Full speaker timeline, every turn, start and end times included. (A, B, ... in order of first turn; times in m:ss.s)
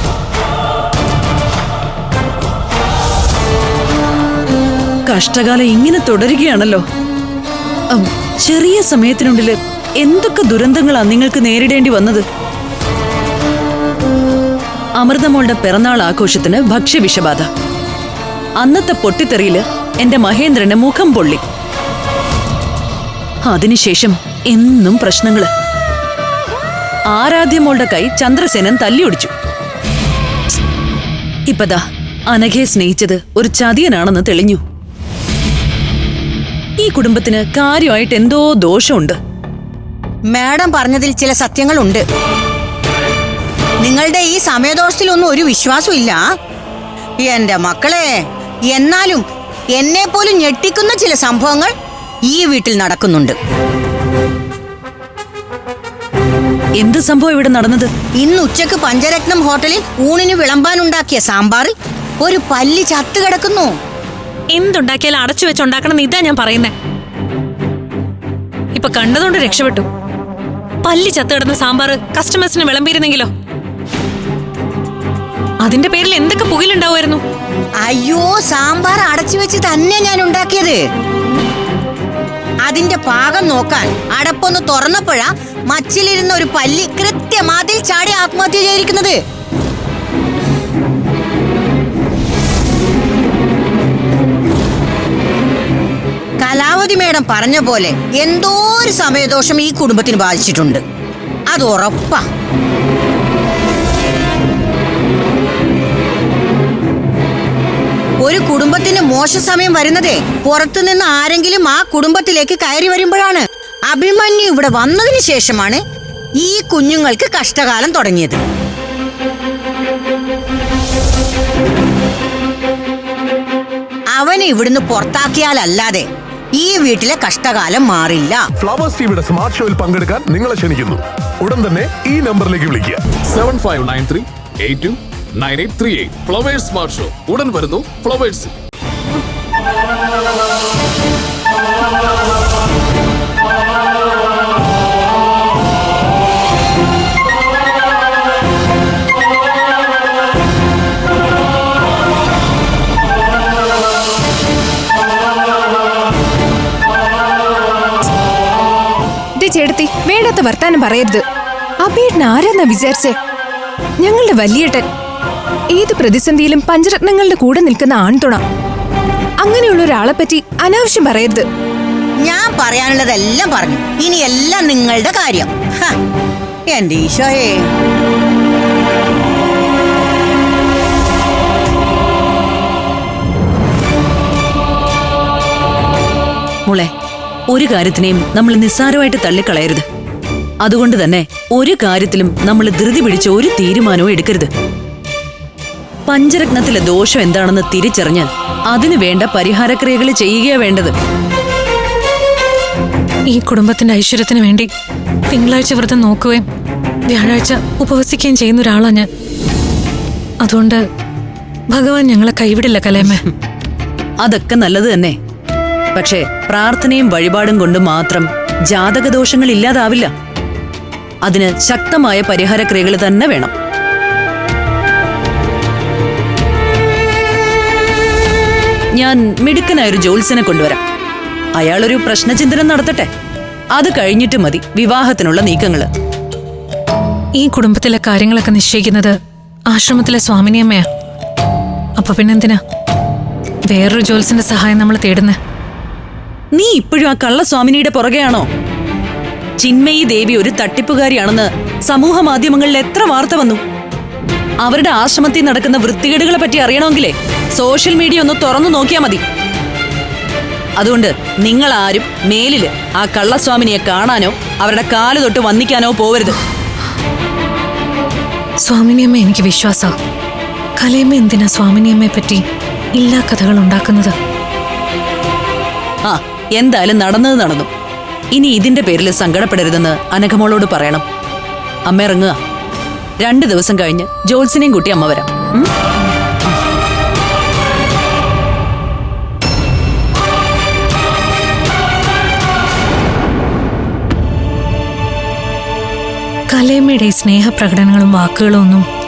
0:05.1-0:06.8 A
0:07.9-0:12.2 A
0:15.0-0:17.5 A
0:18.6-0:21.4 A
0:23.4-0:25.5 A
0:27.1-0:29.3 A
0:31.5-0:34.6 A
0:36.8-0:39.2 A
0:40.3-0:42.0 B
0:43.8-0:46.2 B
0:47.2-0:48.1 B
0:48.7-0:49.2 B
0:49.7-0:51.7 B
0:52.3-0:53.4 B
0:56.8-0:57.9 A
0:58.2-1:03.7 B
1:04.5-1:06.7 C
1:08.7-1:09.8 C
1:10.8-1:13.3 C
1:15.6-1:17.2 C
1:17.8-1:20.8 B
1:22.6-1:29.2 B
1:36.4-1:40.8 B
1:41.5-1:42.2 B
1:48.2-1:55.8 B
1:56.4-1:58.4 B
2:04.1-2:08.4 B
2:08.6-2:13.0 D
2:13.3-2:18.5 E
2:39.4-2:41.2 F
2:41.8-2:43.2 F
2:44.0-2:44.8 F
2:45.7-2:48.4 F
2:49.4-2:51.4 F
2:52.2-2:56.0 B
2:56.7-2:57.7 B
3:06.6-3:06.9 A
3:07.5-3:09.8 A
3:10.6-3:14.5 A
3:16.1-3:20.9 A
3:23.3-3:24.7 C
3:25.3-3:26.4 C
3:27.1-3:29.1 C
3:30.4-3:30.8 C
3:31.7-3:33.2 C
3:34.2-3:35.2 A
3:35.9-3:40.1 A
3:41.2-3:43.5 A
3:49.0-3:50.8 A
3:51.6-3:53.1 A
3:53.7-3:55.9 A
3:57.4-3:59.2 C
3:59.7-4:00.9 C
4:02.0-4:02.6 C
4:03.7-4:05.4 C
4:06.5-4:08.5 A
4:09.6-4:13.6 A
4:14.6-4:19.2 A
4:20.8-4:26.4 A
4:28.6-4:29.9 C
4:30.8-4:32.4 C
4:32.9-4:34.1 C
4:36.0-4:37.7 A
4:38.3-4:41.0 A
4:41.9-4:42.4 A
4:43.2-4:45.7 A
4:56.5-4:58.8 C